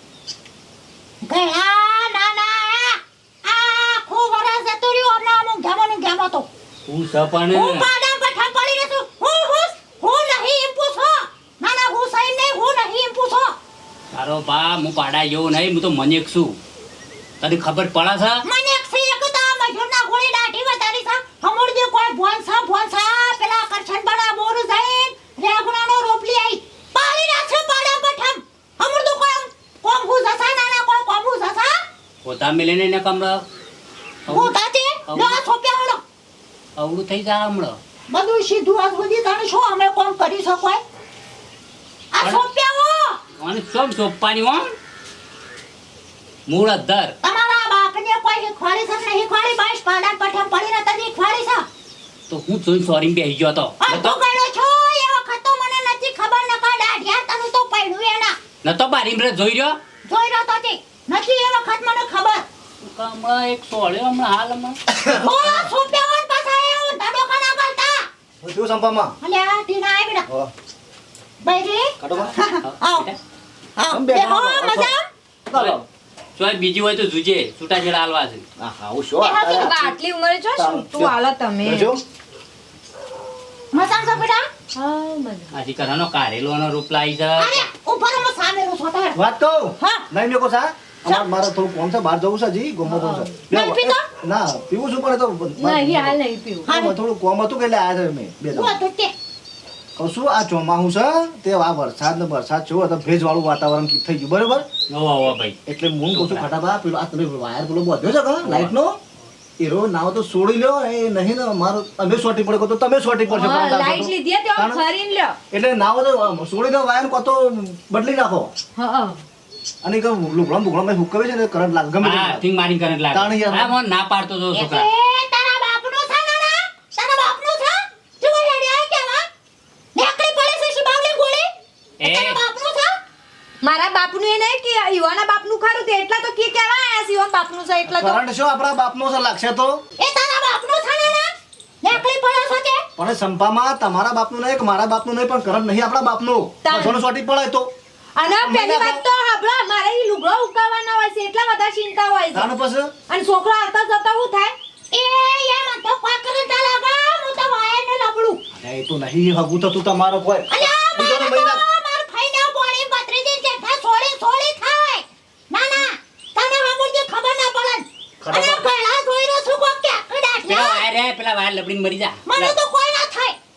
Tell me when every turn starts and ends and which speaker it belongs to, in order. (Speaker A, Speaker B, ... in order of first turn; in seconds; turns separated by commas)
Speaker A: 1.2-6.5, Speaker B: 6.9-7.8, Speaker A: 7.5-13.5, Speaker B: 14.1-16.6, Speaker B: 17.4-18.4, Speaker A: 18.4-31.8, Speaker B: 32.2-33.4, Speaker B: 34.3-34.5, Speaker A: 34.3-36.0, Speaker B: 35.1-35.4, Speaker B: 36.8-37.8, Speaker A: 38.1-40.8, Speaker A: 42.1-43.2, Speaker B: 43.4-44.7, Speaker B: 46.5-47.1, Speaker A: 47.2-51.7, Speaker B: 52.3-54.2, Speaker A: 53.8-58.4, Speaker B: 58.6-59.8, Speaker A: 60.0-62.5, Speaker B: 62.8-64.8, Speaker C: 64.9-65.7, Speaker A: 65.1-68.1, Speaker C: 68.4-69.2, Speaker A: 69.2-70.2, Speaker A: 71.4-73.1, Speaker C: 72.0-72.3, Speaker B: 72.7-73.2, Speaker A: 73.8-75.0, Speaker C: 73.9-75.0, Speaker C: 75.5-75.8, Speaker B: 75.5-75.8, Speaker B: 76.3-78.4, Speaker C: 78.6-79.9, Speaker A: 79.2-79.7, Speaker D: 79.6-81.9, Speaker C: 80.5-82.0, Speaker A: 83.7-84.5, Speaker D: 84.7-85.5, Speaker B: 85.5-87.7, Speaker A: 87.4-89.2, Speaker C: 89.1-98.8, Speaker A: 89.8-90.1, Speaker D: 92.9-93.3, Speaker A: 93.5-94.1, Speaker D: 95.6-96.7, Speaker A: 96.7-97.0, Speaker A: 98.5-99.1, Speaker C: 100.0-104.7, Speaker B: 104.9-105.6, Speaker C: 105.7-109.0, Speaker B: 106.1-106.5, Speaker B: 108.4-108.7, Speaker C: 109.6-114.8, Speaker D: 113.3-115.4, Speaker C: 115.5-118.5, Speaker D: 118.8-119.2, Speaker C: 119.8-122.4, Speaker B: 122.0-124.9, Speaker C: 123.1-123.7, Speaker A: 124.5-129.3, Speaker A: 129.9-131.5, Speaker B: 132.0-132.4, Speaker A: 132.0-132.9, Speaker D: 133.6-138.2, Speaker C: 137.8-139.8, Speaker A: 140.0-142.8, Speaker C: 142.9-147.7, Speaker D: 146.6-147.0, Speaker D: 148.2-152.5, Speaker C: 148.2-149.0, Speaker C: 152.3-152.9, Speaker D: 153.1-154.5, Speaker A: 154.9-158.4, Speaker C: 158.5-161.6, Speaker A: 160.5-170.8, Speaker C: 168.2-168.7, Speaker B: 170.5-172.6, Speaker A: 172.3-173.4